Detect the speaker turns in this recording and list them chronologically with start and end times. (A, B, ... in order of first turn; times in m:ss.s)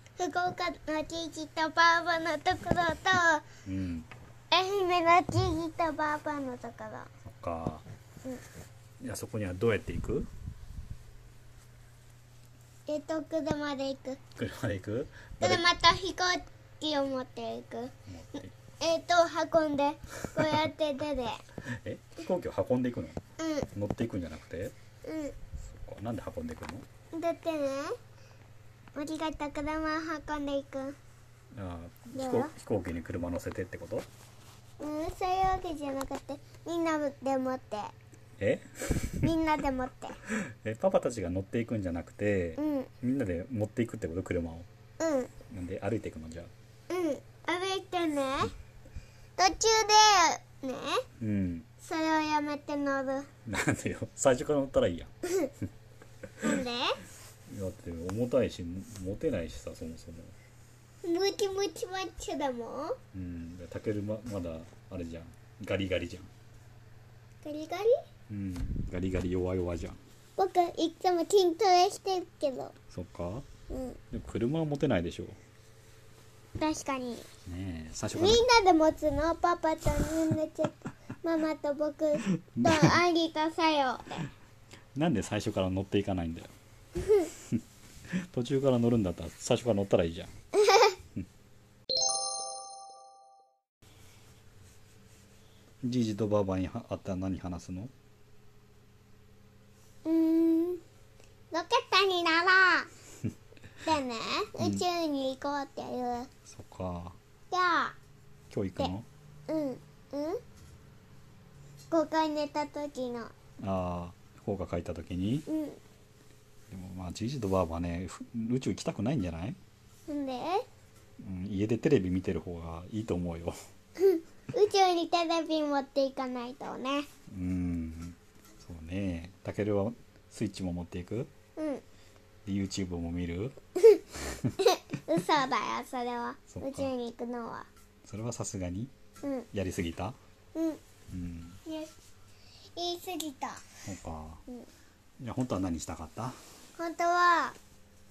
0:00.2-0:03.5 A
0:03.6-0:04.1 B
0:04.5-0:07.1 A
0:07.2-0:07.8 B
0:09.0-0:10.3 B
0:12.9-0:14.2 A
0:14.4-0:15.7 B
0:15.4-0:17.9 A
0:18.1-0:18.6 B
0:18.8-0:21.4 A
0:20.2-0:20.6 B
0:21.7-0:23.2 B
0:23.4-0:23.7 A
0:23.7-0:24.7 B
0:25.0-0:25.4 A
0:25.5-0:26.9 B
0:27.1-0:28.0 A
0:29.0-0:31.0 A
0:31.5-0:34.1 B
0:32.1-0:32.5 A
0:34.8-0:37.9 A
0:38.4-0:39.3 B
0:39.2-0:40.2 A
0:40.2-0:44.7 B
0:42.6-0:42.9 A
0:45.0-0:45.4 A
0:45.4-0:46.5 B
0:46.9-0:48.5 A
0:49.4-0:51.0 A
0:51.2-0:51.7 B
0:51.8-0:53.3 A
0:53.5-0:55.1 B
0:56.4-0:56.9 A
0:57.5-1:00.3 B
1:01.0-1:03.0 A
1:03.1-1:06.3 B
1:07.4-1:07.9 A
1:08.3-1:10.0 B
1:10.4-1:12.8 A
1:12.9-1:13.5 B
1:13.7-1:14.0 A
1:14.1-1:15.4 B
1:16.6-1:17.3 A
1:17.4-1:18.5 B
1:18.1-1:24.3 A
1:22.3-1:23.0 B
1:25.0-1:26.5 B
1:27.0-1:27.2 A
1:27.3-1:30.3 B
1:30.6-1:31.0 A
1:35.8-1:37.9 B
1:40.0-1:40.8 A
1:41.5-1:42.9 A
1:43.8-1:46.3 A
1:44.6-1:44.8 B
1:46.5-1:47.2 B
1:47.5-1:48.0 A
1:48.5-1:49.1 B
1:49.5-1:50.4 A
1:51.9-1:53.3 A
1:53.6-1:55.5 B
1:55.5-1:55.8 A
1:56.7-1:59.6 B
2:00.1-2:00.7 A
2:01.2-2:03.6 B
2:04.0-2:07.1 A
2:07.3-2:11.3 B
2:11.6-2:11.8 A
2:12.5-2:13.6 B
2:13.8-2:14.0 A
2:14.2-2:14.5 B
2:14.6-2:17.7 A
2:16.5-2:16.9 B
2:18.0-2:18.9 B
2:19.5-2:20.2 B
2:20.6-2:20.8 A
2:21.1-2:21.6 B
2:21.7-2:22.0 A
2:22.8-2:23.7 A
2:23.8-2:24.4 B
2:25.2-2:26.4 B
2:26.8-2:27.6 A